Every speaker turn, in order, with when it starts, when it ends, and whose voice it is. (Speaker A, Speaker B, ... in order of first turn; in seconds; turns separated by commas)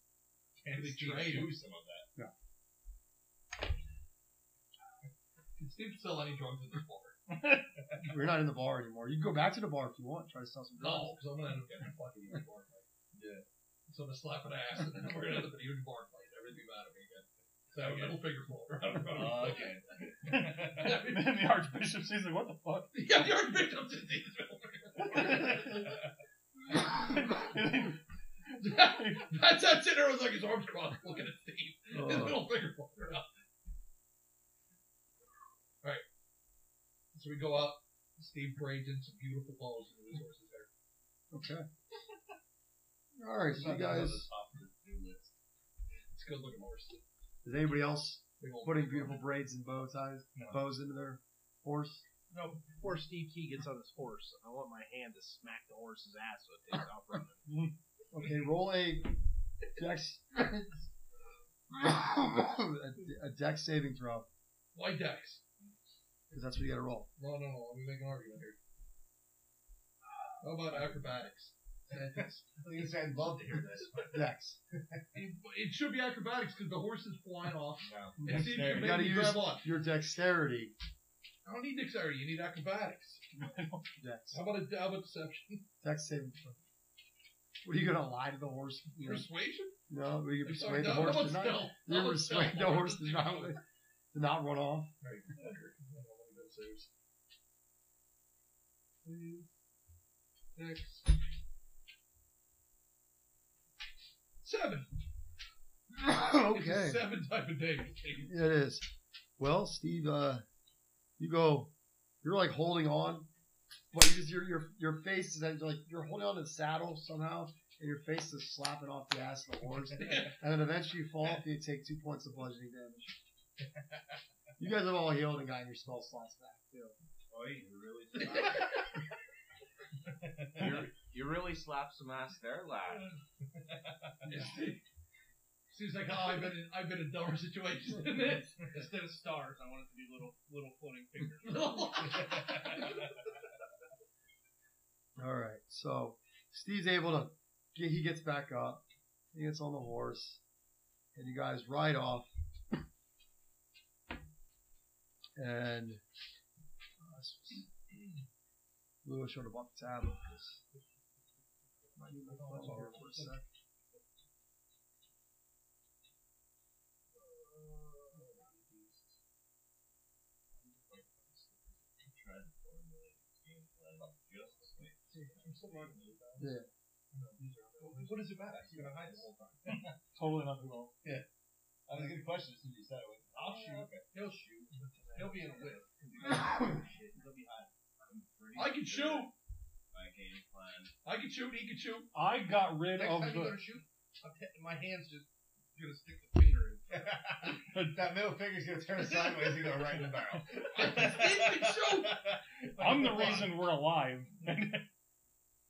Speaker A: 0.6-2.1, Speaker B: 0.7-1.6, Speaker B: 5.6-7.2, Speaker C: 8.1-11.2, Speaker B: 10.8-12.9, Speaker A: 13.1-13.4, Speaker B: 13.9-19.8, Speaker A: 17.8-18.2, Speaker A: 19.1-21.0, Speaker B: 20.3-21.4, Speaker D: 20.8-22.9, Speaker B: 22.9-26.0, Speaker D: 25.1-26.0, Speaker D: 26.7-28.0, Speaker D: 28.6-29.3, Speaker B: 28.6-33.3, Speaker C: 31.9-32.4, Speaker B: 37.1-40.7, Speaker C: 41.3-41.7, Speaker C: 43.2-44.3, Speaker A: 43.5-45.3, Speaker B: 46.1-47.0, Speaker C: 47.4-52.0, Speaker B: 48.4-49.2, Speaker A: 50.4-50.6, Speaker E: 52.3-57.5, Speaker D: 57.5-57.7, Speaker C: 58.1-59.1, Speaker C: 59.8-60.9, Speaker C: 61.7-64.3, Speaker B: 64.7-65.4, Speaker C: 66.3-67.1, Speaker B: 67.2-68.6, Speaker B: 70.4-72.3, Speaker A: 72.0-74.2, Speaker C: 74.1-74.6, Speaker A: 74.7-75.1, Speaker B: 75.1-79.7, Speaker A: 77.8-79.1, Speaker C: 78.2-80.7, Speaker B: 81.5-83.2, Speaker D: 83.4-83.8, Speaker C: 84.0-84.4, Speaker B: 84.3-85.6, Speaker C: 85.8-86.6, Speaker C: 87.6-89.3, Speaker B: 89.0-89.8, Speaker C: 89.9-93.6, Speaker B: 90.4-93.6, Speaker C: 94.1-94.9, Speaker B: 95.0-96.9, Speaker B: 99.0-99.5, Speaker B: 100.6-101.2, Speaker B: 104.4-104.9, Speaker C: 106.0-107.0, Speaker B: 106.5-108.3, Speaker C: 108.2-108.9, Speaker C: 109.4-110.5, Speaker C: 111.2-113.3, Speaker C: 113.9-123.2, Speaker B: 120.0-120.4, Speaker C: 124.6-127.0, Speaker F: 127.3-128.8, Speaker F: 130.6-133.2, Speaker B: 134.2-134.8, Speaker B: 135.7-138.7, Speaker E: 138.6-141.9, Speaker B: 141.4-143.1, Speaker A: 142.1-142.7, Speaker C: 145.2-150.4, Speaker C: 151.2-152.3, Speaker C: 155.4-156.0, Speaker C: 157.0-157.7, Speaker C: 159.0-160.6, Speaker C: 162.0-163.4, Speaker B: 162.2-163.4, Speaker E: 167.2-169.2, Speaker B: 168.2-168.4, Speaker E: 170.5-171.3, Speaker F: 172.0-175.2, Speaker B: 175.1-176.5, Speaker E: 175.2-176.0, Speaker C: 176.4-176.7, Speaker B: 177.1-179.0, Speaker E: 177.3-179.3, Speaker A: 178.4-180.0, Speaker D: 179.7-180.9, Speaker A: 181.9-184.1, Speaker B: 183.3-183.9, Speaker E: 183.5-187.7, Speaker B: 185.1-185.8, Speaker F: 188.1-189.3, Speaker B: 188.5-189.3, Speaker F: 189.9-190.9, Speaker B: 191.1-192.1, Speaker D: 192.1-193.7, Speaker E: 192.8-197.2, Speaker A: 196.9-203.5, Speaker B: 200.7-202.2, Speaker D: 202.8-204.8, Speaker B: 202.8-203.5